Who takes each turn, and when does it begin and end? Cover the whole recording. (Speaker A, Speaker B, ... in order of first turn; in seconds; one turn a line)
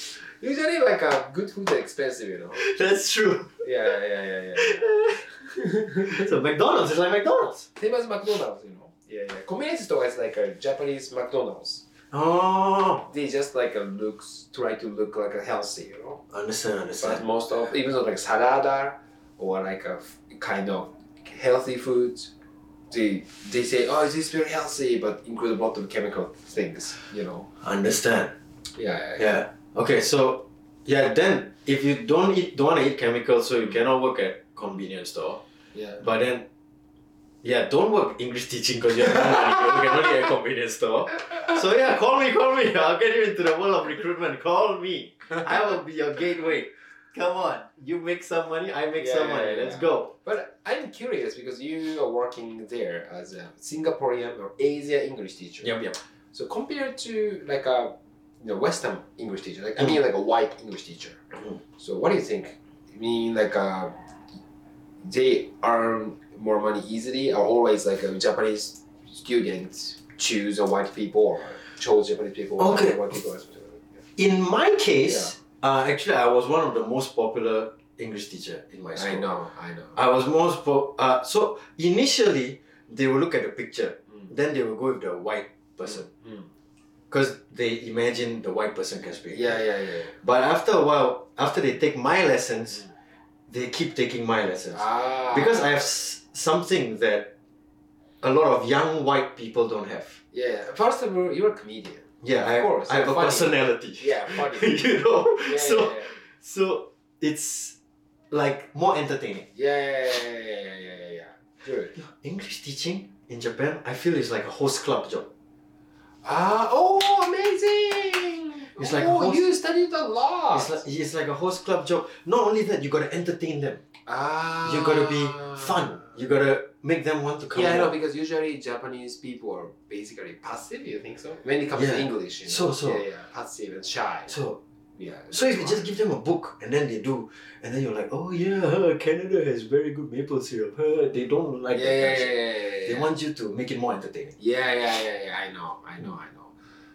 Speaker A: 0.4-2.6
Speaker B: 2.6-3.6
Speaker A: 3.6-6.3
Speaker B: 4.7-5.2
Speaker B: 6.0-7.7
Speaker A: 7.8-11.8
Speaker B: 12.1-13.0
Speaker A: 13.0-16.2
Speaker B: 16.3-17.2
Speaker A: 17.0-22.3
Speaker A: 22.9-27.5
Speaker B: 27.6-28.3
Speaker A: 28.7-29.4
Speaker B: 29.2-35.4
Speaker A: 35.7-36.0
Speaker B: 36.0-36.5
Speaker B: 37.4-50.1
Speaker A: 39.1-40.0
Speaker A: 48.9-61.2
Speaker A: 61.8-63.9
Speaker A: 65.0-74.0
Speaker B: 72.6-73.0
Speaker B: 74.2-79.3
Speaker A: 75.0-75.3
Speaker A: 78.9-80.0
Speaker B: 80.0-86.0
Speaker A: 85.8-86.5
Speaker B: 87.1-89.5
Speaker A: 89.3-90.2
Speaker B: 90.2-92.9
Speaker B: 93.5-97.3
Speaker A: 94.7-95.8
Speaker B: 98.2-100.2
Speaker A: 100.3-104.8
Speaker B: 102.2-107.8
Speaker A: 105.4-106.1
Speaker B: 108.3-109.5
Speaker A: 109.5-111.9
Speaker B: 112.0-115.3
Speaker A: 116.2-120.8
Speaker B: 118.8-119.4
Speaker B: 120.5-123.8
Speaker A: 124.1-126.1
Speaker B: 124.7-127.9
Speaker A: 127.5-134.4
Speaker B: 131.7-133.0
Speaker B: 134.3-134.6
Speaker A: 134.9-135.8
Speaker B: 135.3-144.3
Speaker A: 141.7-143.1
Speaker A: 144.4-146.5